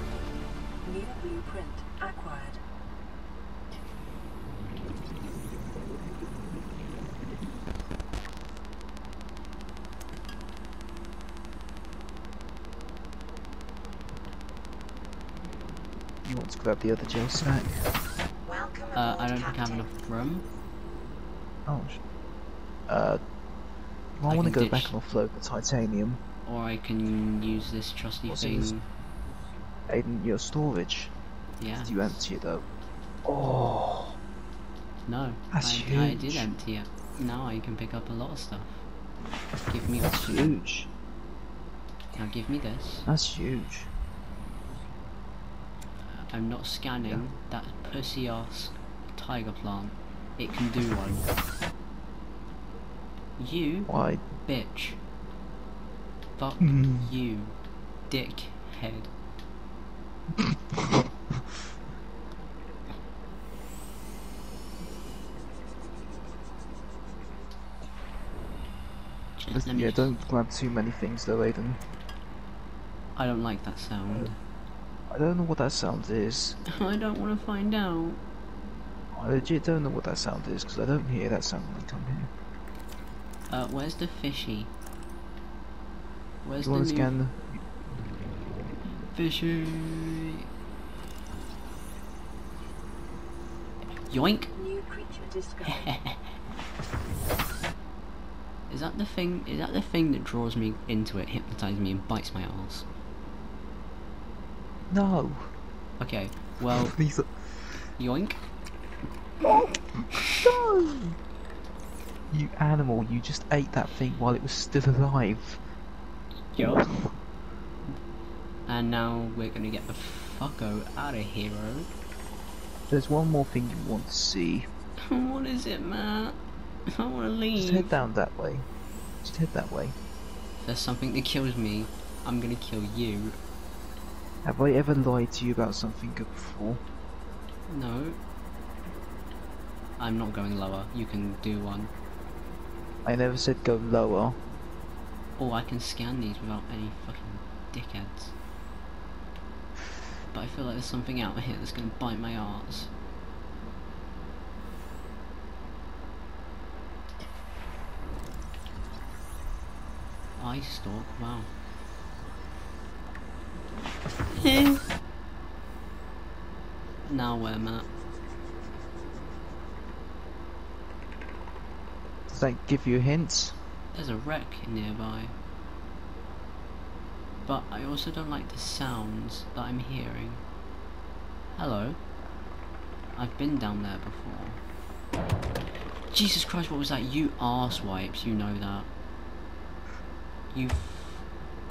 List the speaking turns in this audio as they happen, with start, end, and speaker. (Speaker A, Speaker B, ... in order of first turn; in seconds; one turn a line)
Speaker A: 0.8-2.6
Speaker B: 16.2-17.9
Speaker C: 18.9-20.4
Speaker B: 21.7-22.0
Speaker B: 22.9-23.2
Speaker B: 24.2-26.2
Speaker C: 24.3-25.0
Speaker C: 26.5-28.9
Speaker B: 28.3-28.7
Speaker B: 29.9-31.1
Speaker C: 31.6-32.2
Speaker B: 31.8-32.7
Speaker B: 33.2-34.2
Speaker C: 35.1-38.9
Speaker B: 35.5-36.5
Speaker C: 39.7-40.6
Speaker B: 40.0-40.9
Speaker C: 42.2-43.1
Speaker B: 43.1-43.9
Speaker C: 46.0-51.3
Speaker C: 53.4-55.0
Speaker B: 53.9-54.2
Speaker C: 56.4-57.6
Speaker B: 56.6-57.1
Speaker C: 58.1-59.1
Speaker B: 60.4-61.1
Speaker C: 69.4-70.1
Speaker B: 69.5-71.8
Speaker C: 73.2-74.4
Speaker B: 75.1-76.6
Speaker C: 76.7-78.2
Speaker B: 79.1-82.3
Speaker C: 83.5-84.7
Speaker C: 86.4-87.2
Speaker B: 86.6-87.6
Speaker C: 89.1-90.3
Speaker C: 94.1-94.5
Speaker A: 94.5-96.0
Speaker C: 95.7-96.3
Speaker C: 98.7-102.9
Speaker B: 104.9-105.5
Speaker C: 106.0-107.0
Speaker B: 106.7-107.7
Speaker C: 108.0-108.4
Speaker C: 110.1-110.5
Speaker B: 110.4-111.2
Speaker B: 112.3-115.6
Speaker C: 116.5-116.9
Speaker B: 116.6-117.1
Speaker C: 118.7-121.9
Speaker B: 122.9-124.7
Speaker C: 125.0-128.0
Speaker B: 127.5-128.7
Speaker B: 129.2-130.0
Speaker C: 130.6-133.4
Speaker B: 134.4-136.8
Speaker C: 137.7-138.2
Speaker C: 140.0-141.9
Speaker B: 143.1-144.4
Speaker C: 145.4-148.3
Speaker C: 150.3-152.9
Speaker C: 160.4-161.5
Speaker C: 164.3-164.8
Speaker C: 167.1-167.9
Speaker B: 172.3-173.6
Speaker C: 173.9-175.3
Speaker C: 177.4-180.4
Speaker C: 181.5-182.0
Speaker C: 183.1-184.6
Speaker C: 186.1-188.9
Speaker C: 190.5-191.2